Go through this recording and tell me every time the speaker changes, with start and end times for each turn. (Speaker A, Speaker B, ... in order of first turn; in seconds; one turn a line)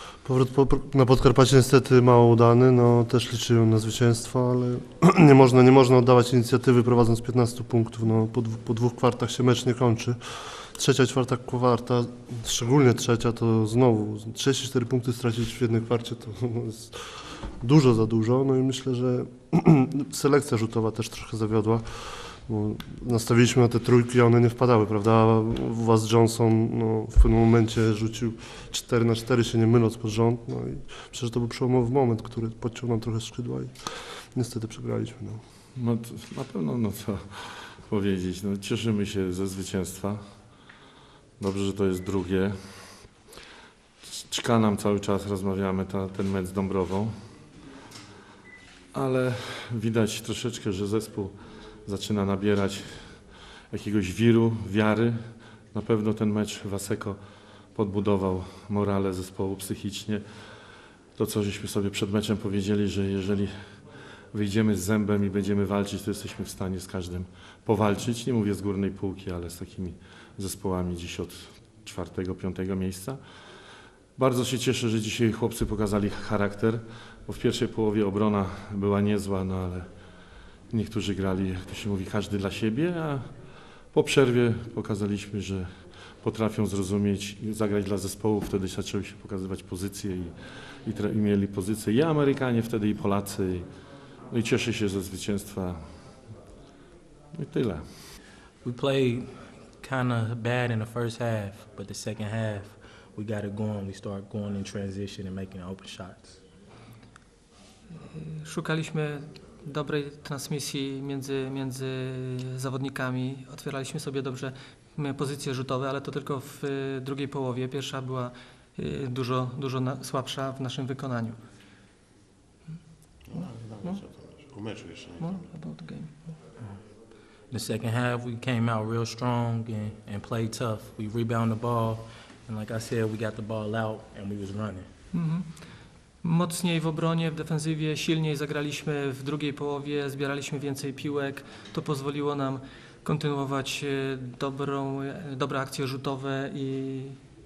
Speaker A: 0.2-35.4
Speaker B: 35.8-40.2
Speaker B: 41.4-43.1
Speaker B: 44.3-47.1
Speaker B: 48.9-57.2
Speaker B: 57.7-60.2
Speaker B: 61.1-63.5
Speaker B: 64.3-73.2
Speaker B: 74.2-79.9
Speaker B: 80.7-83.3
Speaker B: 83.9-90.3
Speaker B: 90.8-93.7
Speaker B: 94.3-95.8
Speaker B: 97.4-97.9
Speaker C: 98.6-106.4
Speaker D: 108.1-121.4
Speaker E: 123.3-125.5
Speaker D: 125.2-126.3
Speaker C: 127.5-134.9
Speaker D: 135.1-135.6
Speaker D: 136.2-147.2